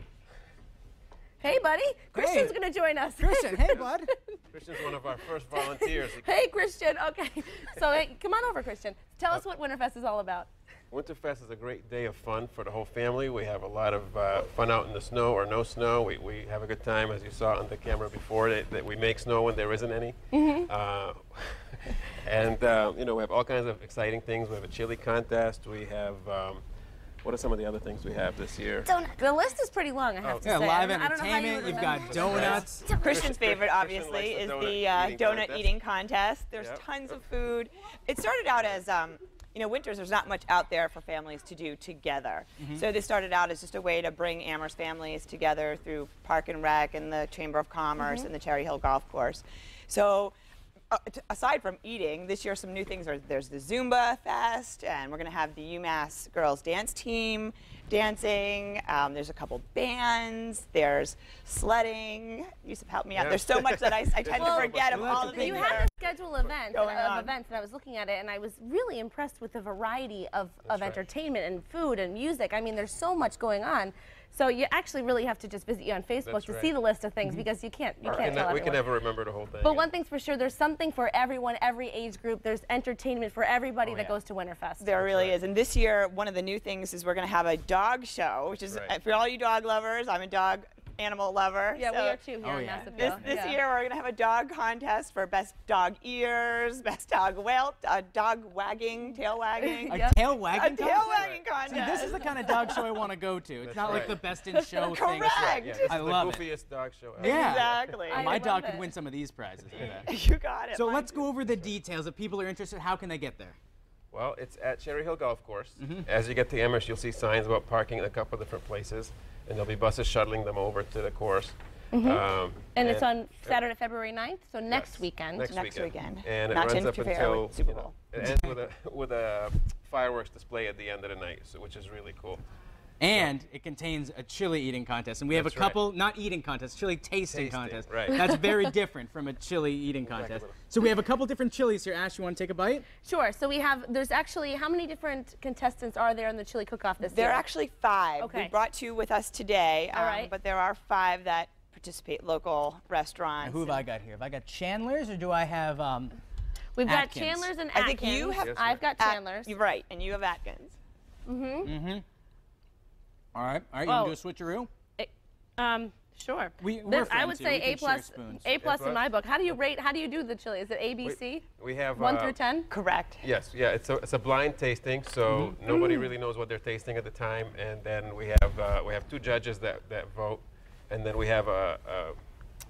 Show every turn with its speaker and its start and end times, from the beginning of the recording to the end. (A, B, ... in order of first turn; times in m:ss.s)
0:01.4-0:04.4 A
0:02.1-0:02.5 B
0:03.2-0:04.1 B
0:04.5-0:06.3 C
0:05.5-0:10.5 A
0:10.9-0:26.6 C
0:20.3-0:20.7 A
0:27.2-0:28.9 C
0:28.8-0:33.0 A
0:30.2-0:30.5 C
0:30.4-0:32.9 B
0:31.7-0:35.8 C
0:32.3-0:50.3 D
0:36.6-0:36.9 C
0:42.6-0:42.8 B
0:48.0-0:48.3 A
0:50.9-1:05.9 D
1:03.1-1:05.9 C
1:04.3-1:18.8 A
1:04.9-1:05.8 B
1:06.7-1:07.3 D
1:10.6-1:11.0 C
1:16.2-1:16.7 C
1:18.0-1:18.7 D
1:18.1-1:19.9 C
1:19.6-1:24.9 A
1:23.8-1:24.1 B
1:24.8-1:32.2 D
1:25.0-1:25.4 C
1:31.8-1:33.6 A
1:32.4-1:33.3 B
1:32.8-1:42.8 D
1:39.6-1:40.2 A
1:39.9-1:46.5 B
1:41.1-1:41.5 C
1:43.6-1:44.3 C
1:43.9-1:44.1 D
1:44.8-1:46.0 D
1:45.1-1:48.0 C
1:47.2-1:48.4 D
1:47.2-1:50.1 B
1:48.1-1:48.9 A
1:49.8-1:51.3 D
1:50.7-1:53.6 B
1:54.1-2:03.6 C
1:55.8-1:56.0 B
2:01.9-2:05.5 A
2:04.7-2:12.4 C
2:05.5-2:08.0 D
2:13.0-2:22.9 B
2:15.3-2:15.8 C
2:17.3-2:18.2 C
2:18.1-2:18.6 A
2:20.1-2:20.5 C
2:23.0-2:27.4 A
2:27.0-2:33.8 D
2:28.2-2:28.5 A
2:29.9-2:30.3 A
2:33.4-2:36.2 B
2:36.8-2:39.6 A
2:36.8-2:37.5 B
2:37.7-2:40.8 D
2:38.4-2:38.8 C
2:41.2-2:41.7 A
2:41.6-2:42.0 B
2:43.3-2:44.7 B
2:43.9-2:44.2 A
2:45.0-2:52.7 A
2:46.6-2:48.5 B
2:48.6-2:49.1 C
2:51.0-2:52.4 C
2:52.7-2:53.2 D
2:53.2-3:02.2 C
2:55.3-2:55.6 B
2:55.7-2:56.0 A